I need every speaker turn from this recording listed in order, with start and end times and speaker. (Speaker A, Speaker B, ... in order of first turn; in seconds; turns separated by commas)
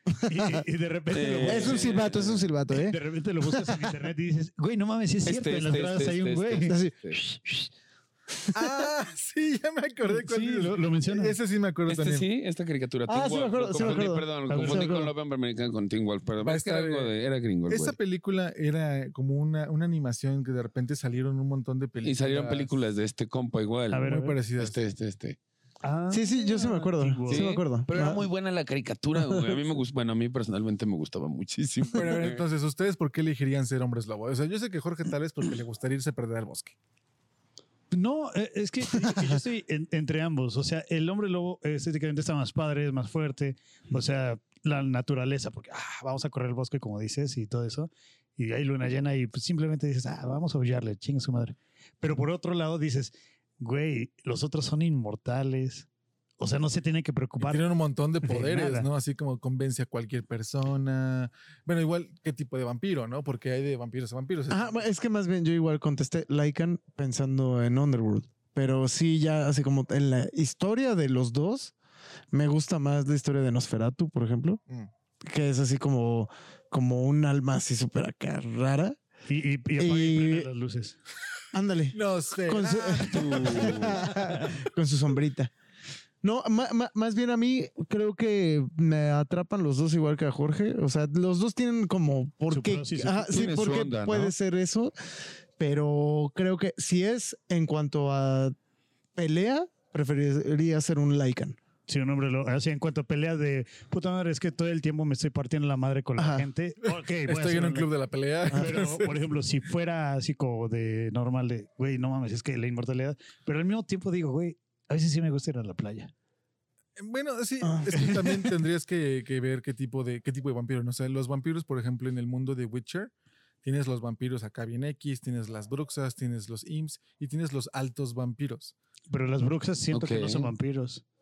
Speaker A: 0.2-2.0, Speaker B: 0.3-0.6, Speaker C: 1.1-2.5, Speaker B: 1.5-3.9, Speaker A: 2.7-6.8, Speaker C: 5.3-7.2, Speaker B: 6.7-7.7, Speaker B: 8.4-8.9, Speaker D: 8.5-12.3, Speaker A: 10.1-11.4, Speaker C: 11.9-18.0, Speaker B: 13.1-15.1, Speaker A: 14.5-15.0, Speaker D: 16.4-17.1, Speaker D: 17.7-22.7, Speaker C: 22.0-25.4, Speaker A: 23.9-24.4, Speaker D: 24.0-24.8, Speaker A: 25.8-27.5, Speaker B: 26.1-28.2, Speaker C: 27.3-32.5, Speaker D: 31.9-36.8, Speaker A: 37.9-55.9, Speaker B: 39.1-39.4, Speaker A: 56.4-57.7, Speaker D: 57.4-64.8, Speaker A: 58.2-58.9, Speaker B: 64.5-71.7, Speaker B: 72.3-74.6, Speaker B: 75.2-79.0, Speaker A: 79.3-81.0, Speaker B: 79.8-80.5, Speaker B: 81.5-85.5, Speaker D: 81.9-84.2, Speaker C: 83.1-84.0, Speaker B: 86.2-94.9, Speaker A: 92.5-93.4, Speaker C: 93.3-94.3, Speaker B: 95.6-98.5, Speaker B: 99.2-101.6, Speaker A: 101.9-107.9, Speaker B: 106.2-106.5, Speaker D: 107.3-109.2, Speaker A: 108.5-116.1, Speaker D: 117.0-123.1, Speaker B: 117.6-118.3, Speaker D: 123.6-128.7, Speaker A: 129.1-131.0, Speaker C: 129.9-130.5